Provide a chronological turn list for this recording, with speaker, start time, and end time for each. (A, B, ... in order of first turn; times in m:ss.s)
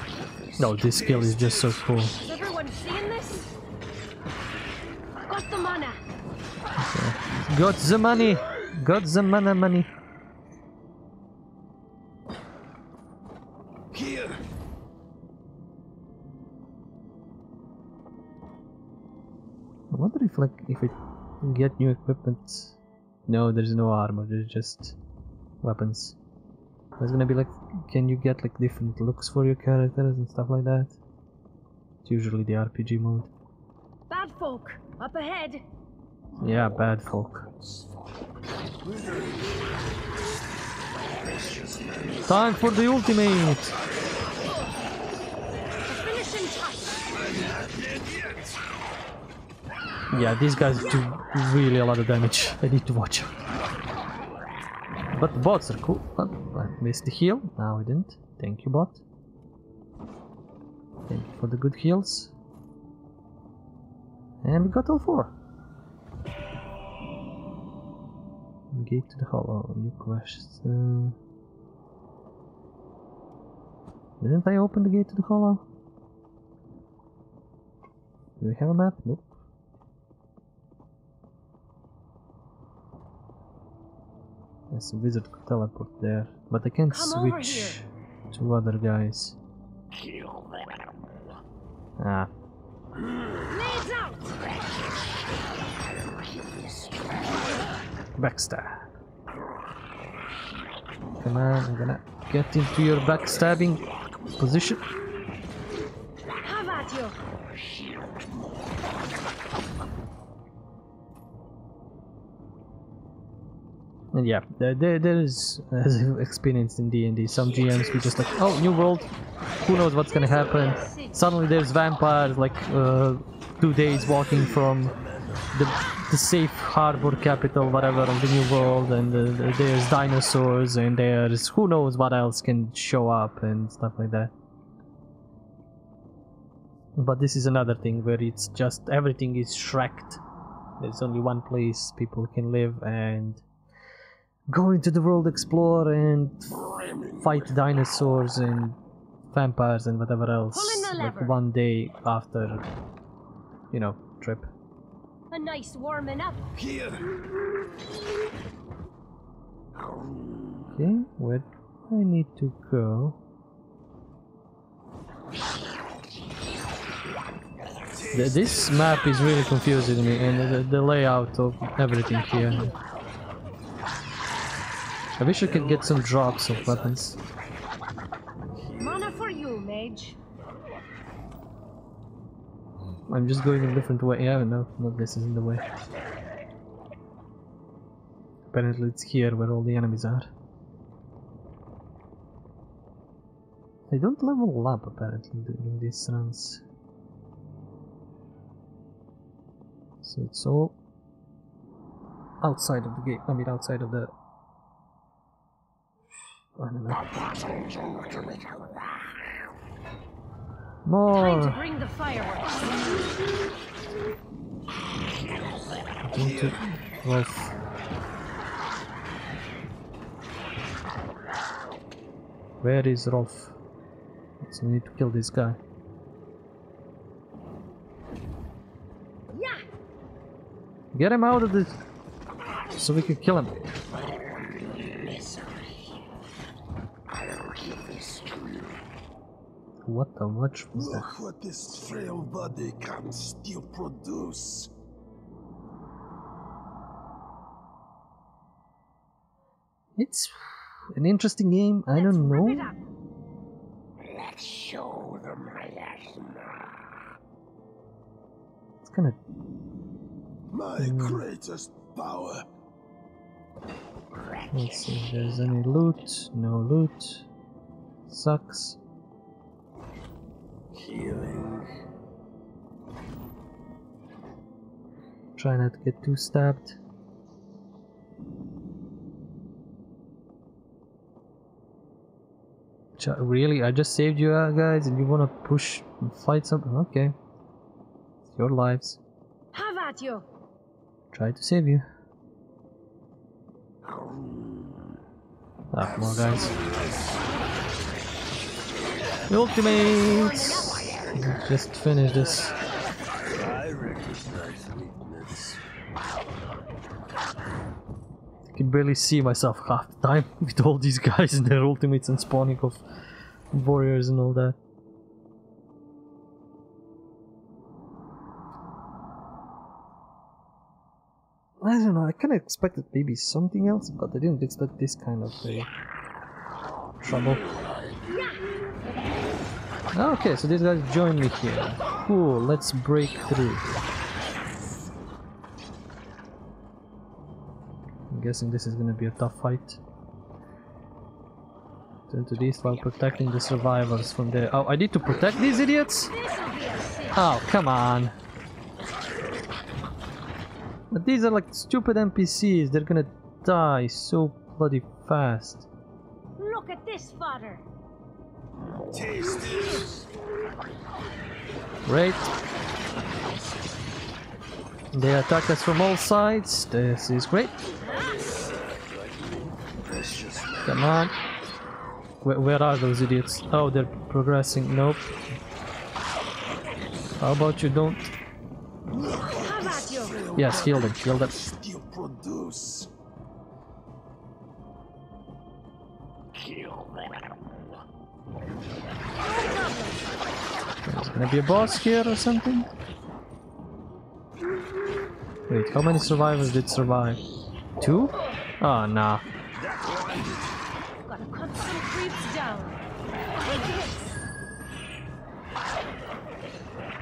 0:00.6-0:02.1 A
0:00.8-0:02.0 B
0:02.2-0:03.5 C
0:05.3-0:06.0 C
0:06.8-0:09.9 A
0:13.9-0:14.4 B
0:19.9-0:25.0 A
0:25.6-0:26.2 A
0:27.0-0:31.0 A
0:32.0-0:33.3 A
0:34.1-0:35.6 C
0:36.4-0:37.5 A
0:38.8-0:39.7 B
0:41.2-0:42.7 B
0:42.2-0:43.7 A
0:45.9-0:47.1 C
0:47.1-0:48.5 B
0:50.1-0:53.3 A
0:55.1-0:59.0 A
1:01.1-1:02.3 A
1:04.4-1:05.3 A
1:08.7-1:11.2 A
1:14.2-1:15.6 A
1:18.4-1:19.3 A
1:24.7-1:29.4 A
1:26.9-1:27.8 C
1:32.0-1:32.3 A
1:33.4-1:34.4 C
1:38.2-1:38.9 A
1:41.2-1:43.8 A
1:44.4-1:44.8 A
1:46.4-1:47.2 C
1:54.1-1:59.1 A
1:57.4-1:58.8 B
1:59.6-2:04.9 A
2:00.0-2:01.2 C
2:03.8-2:05.7 B
2:05.5-2:14.3 A
2:17.0-2:20.2 A
2:20.8-2:23.4 A
2:24.5-2:26.6 A
2:26.5-2:27.8 B
2:27.2-2:28.8 A
2:29.3-2:32.6 A
2:30.5-2:31.3 C
2:33.7-2:34.5 A
2:35.3-2:36.4 C
2:36.5-2:37.1 B
2:39.8-2:40.6 B
2:40.7-2:43.2 A
2:47.9-2:49.0 B
2:48.1-2:52.7 A
2:52.1-2:52.8 C
2:55.2-2:57.2 A
2:55.4-2:57.0 B
2:58.6-2:59.1 B
2:58.8-3:00.2 C
3:03.1-3:05.6 A
3:08.5-3:10.3 A
3:13.9-3:16.6 A
3:20.0-3:20.8 A
3:22.4-3:24.1 A
3:26.6-3:27.0 A
3:30.8-3:31.6 A
3:31.1-3:32.9 C
3:36.0-3:37.5 A
3:36.1-3:36.6 B
3:42.6-3:43.6 A
3:44.4-3:45.6 A
3:49.3-3:49.6 C
3:50.9-3:51.8 A
3:52.8-3:53.6 A
3:54.6-3:55.5 B
3:57.4-3:58.8 B
3:59.8-4:01.1 A
4:00.7-4:04.7 B
4:10.0-4:10.3 A
4:10.9-4:12.7 A
4:11.9-4:12.8 C
4:14.1-4:16.5 B
4:18.8-4:19.2 A
4:20.5-4:22.5 B
4:20.8-4:21.2 A
4:24.5-4:27.3 A
4:28.1-4:28.8 A
4:30.7-4:31.7 B
4:35.4-4:36.8 A
4:43.0-4:47.1 A
4:48.3-4:49.0 A
4:49.5-4:50.2 C
4:51.1-4:51.8 A
4:53.8-4:54.9 B
4:55.7-4:56.6 A
4:55.8-4:57.3 B
4:59.3-5:02.6 A
4:59.6-5:01.1 C
5:02.0-5:02.7 B
5:03.3-5:05.6 B
5:08.5-5:12.8 A
5:13.5-5:14.6 A
5:21.6-5:25.7 A
5:27.0-5:27.4 A
5:28.1-5:28.4 C
5:29.9-5:33.7 A
5:38.1-5:39.8 A
5:42.1-5:46.1 A
5:46.1-5:47.2 C
5:47.1-5:48.1 A
5:50.9-5:55.7 A
5:56.4-5:57.6 C
5:58.9-6:00.1 B
6:01.8-6:02.3 A
6:04.9-6:07.6 A
6:07.8-6:11.1 B
6:10.6-6:11.1 A
6:12.2-6:15.1 A
6:17.2-6:18.1 A
6:18.9-6:22.9 B
6:19.3-6:20.2 C
6:20.4-6:21.3 A
6:29.2-6:30.0 C
6:30.9-6:32.7 A
6:35.5-6:37.2 A
6:37.8-6:39.2 A
6:39.6-6:40.5 B
6:41.0-6:42.8 C
6:43.4-6:44.2 C